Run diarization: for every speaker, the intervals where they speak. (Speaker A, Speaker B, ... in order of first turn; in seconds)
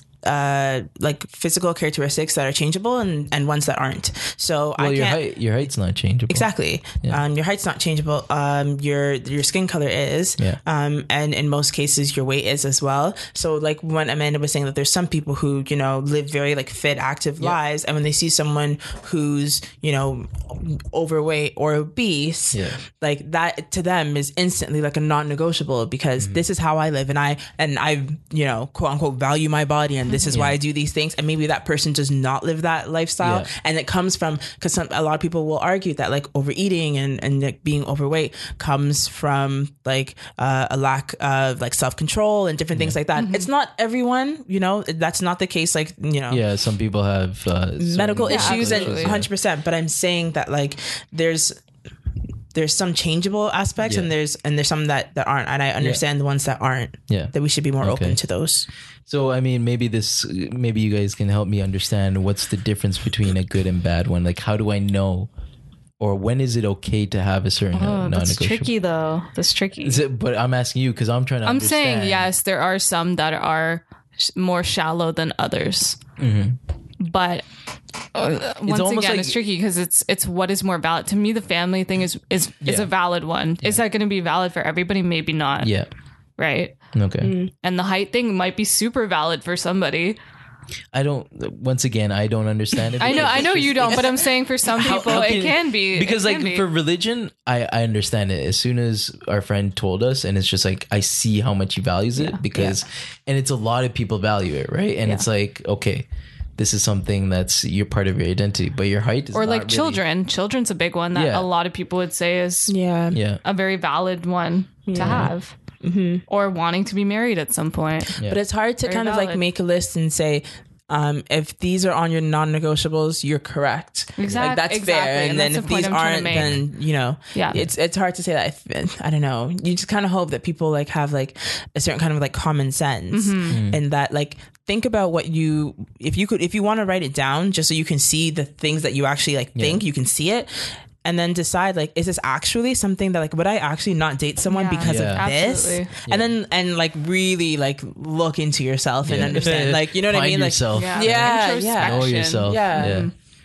Speaker A: 0.2-5.2, 6.3-46.4, 47.8-51.6, 52.5-58.7, 87.2-87.5, 93.0-94.2, 102.5-102.8, 112.7-113.2, 114.9-116.2, 118.2-153.1
Speaker B: 4.8-6.5, 22.5-22.8, 30.3-30.6, 33.2-33.5, 46.3-49.3, 53.8-54.1, 57.1-58.2, 59.1-65.3, 66.0-68.7, 69.8-72.3, 76.2-76.6, 78.6-79.4, 82.6-82.9, 85.6-85.9, 86.9-87.4, 90.9-94.1, 94.7-106.0, 106.6-110.0, 111.1-111.5, 113.1-113.4, 115.0-115.3, 126.3-126.6, 133.5-133.8, 139.6-139.8, 144.8-145.2, 146.1-146.3, 149.0-153.1
Speaker C: 43.1-43.5, 48.3-49.2, 67.7-70.0, 71.4-76.0, 77.0-77.5, 78.1-85.7, 86.4-86.8, 87.6-90.2, 93.0-96.6, 109.3-112.8, 113.4-115.5, 116.3-118.2, 118.8-119.4, 124.2-126.7, 127.3-127.7, 133.1-133.6, 144.5-145.9, 150.7-153.1